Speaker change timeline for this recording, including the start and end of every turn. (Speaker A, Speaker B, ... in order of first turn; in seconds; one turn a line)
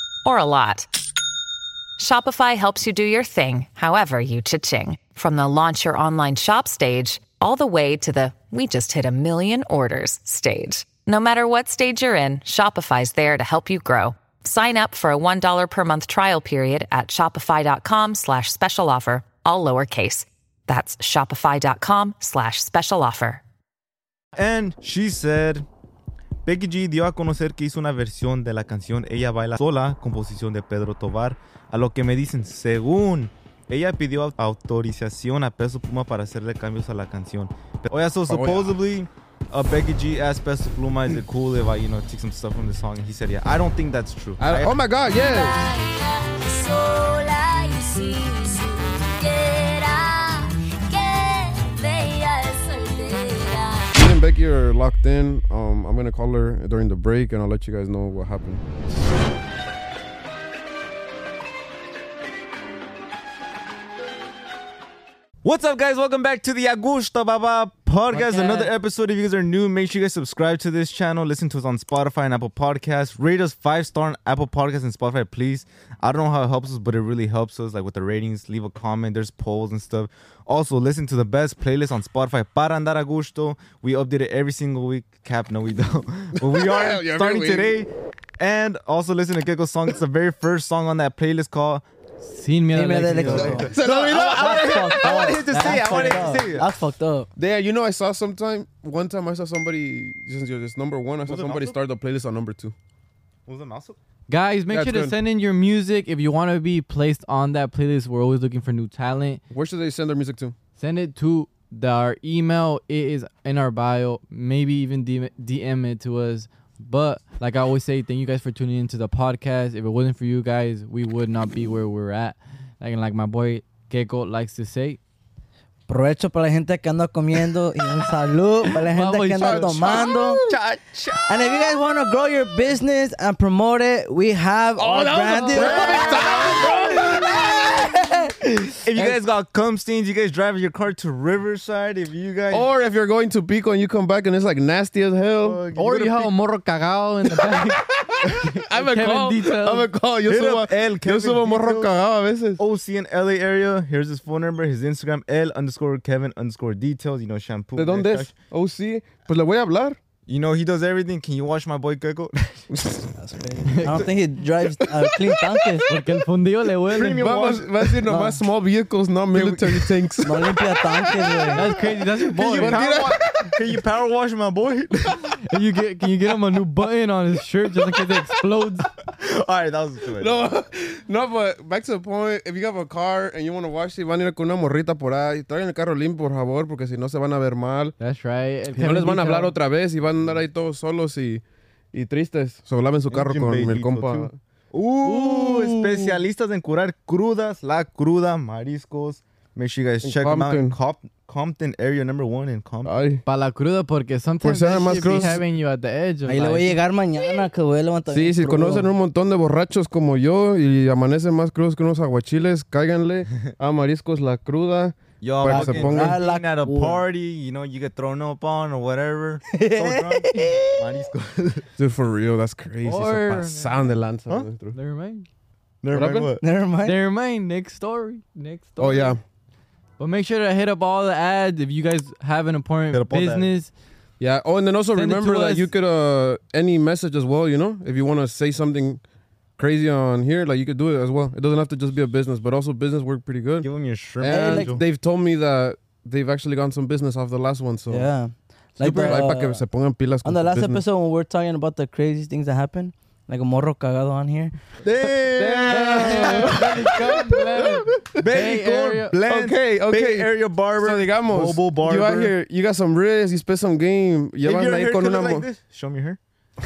Speaker A: 0.2-0.9
Speaker A: 2.0-23.4
Speaker B: 24.4-25.7
Speaker B: 26.4-44.8
Speaker C: 38.3-38.8
Speaker C: 44.4-45.7
Speaker D: 45.2-46.1
Speaker D: 46.8-47.5
Speaker D: 49.3-50.0
Speaker D: 51.0-53.5
Speaker C: 53.9-58.6
Speaker B: 65.4-91.8
Speaker E: 68.1-68.7
Speaker C: 86.4-87.8
Speaker E: 92.2-93.6
Speaker F: 92.7-97.3
Speaker B: 93.2-96.7
Speaker C: 93.3-96.4
Speaker C: 97.4-102.8
Speaker B: 101.3-101.8
Speaker B: 103.5-104.0
Speaker E: 104.3-109.4
Speaker C: 104.7-105.2
Speaker C: 109.5-110.5
Speaker E: 110.8-125.0
Speaker F: 125.9-130.4
Speaker E: 128.9-130.1
Speaker C: 129.4-130.6
Speaker B: 130.4-131.8
Speaker F: 131.3-136.4
Speaker C: 134.8-137.4
Speaker B: 135.5-137.1
Speaker F: 137.2-139.2
Speaker B: 138.8-142.7
Speaker C: 142.5-145.6
Speaker B: 145.4-146.3
Speaker E: 145.8-149.9
Speaker C: 147.3-152.6
Speaker B: 150.3-151.9
Speaker B: 152.6-158.3
Speaker C: 157.8-160.0
Speaker B: 160.3-162.7
Speaker C: 162.7-163.1
Speaker F: 163.2-165.9
Speaker E: 163.7-164.1
Speaker C: 165.0-165.3
Speaker E: 165.9-167.3
Speaker B: 166.9-168.0
Speaker C: 167.0-171.8
Speaker F: 168.1-168.4
Speaker B: 169.3-170.2
Speaker F: 170.2-171.7
Speaker E: 171.5-172.8
Speaker B: 172.3-175.4
Speaker C: 172.4-173.8
Speaker E: 175.4-178.9
Speaker B: 179.1-180.4
Speaker C: 180.2-187.9
Speaker E: 188.0-189.6
Speaker C: 188.7-194.4
Speaker B: 193.1-202.9
Speaker C: 195.0-196.2
Speaker C: 200.0-200.8
Speaker C: 202.8-203.2
Speaker E: 203.3-206.8
Speaker C: 204.4-205.4
Speaker F: 206.3-208.9
Speaker C: 208.1-216.2
Speaker B: 215.2-221.7
Speaker F: 215.4-217.0
Speaker F: 219.5-221.0
Speaker C: 221.8-224.8
Speaker E: 222.8-223.8
Speaker E: 224.7-225.3
Speaker B: 225.8-226.4
Speaker C: 225.9-226.3
Speaker F: 226.4-227.0
Speaker E: 226.8-229.2
Speaker C: 228.8-229.2
Speaker E: 230.0-233.7
Speaker B: 232.9-233.5
Speaker C: 234.2-239.0
Speaker E: 234.9-235.7
Speaker C: 239.6-243.7
Speaker B: 243.6-244.8
Speaker C: 244.2-248.1
Speaker F: 244.3-244.8
Speaker F: 247.9-249.6
Speaker C: 248.8-250.8
Speaker F: 250.2-254.5
Speaker B: 254.8-256.9
Speaker E: 255.4-259.1
Speaker C: 255.6-258.2
Speaker B: 258.2-262.3
Speaker C: 259.3-265.5
Speaker B: 264.4-266.2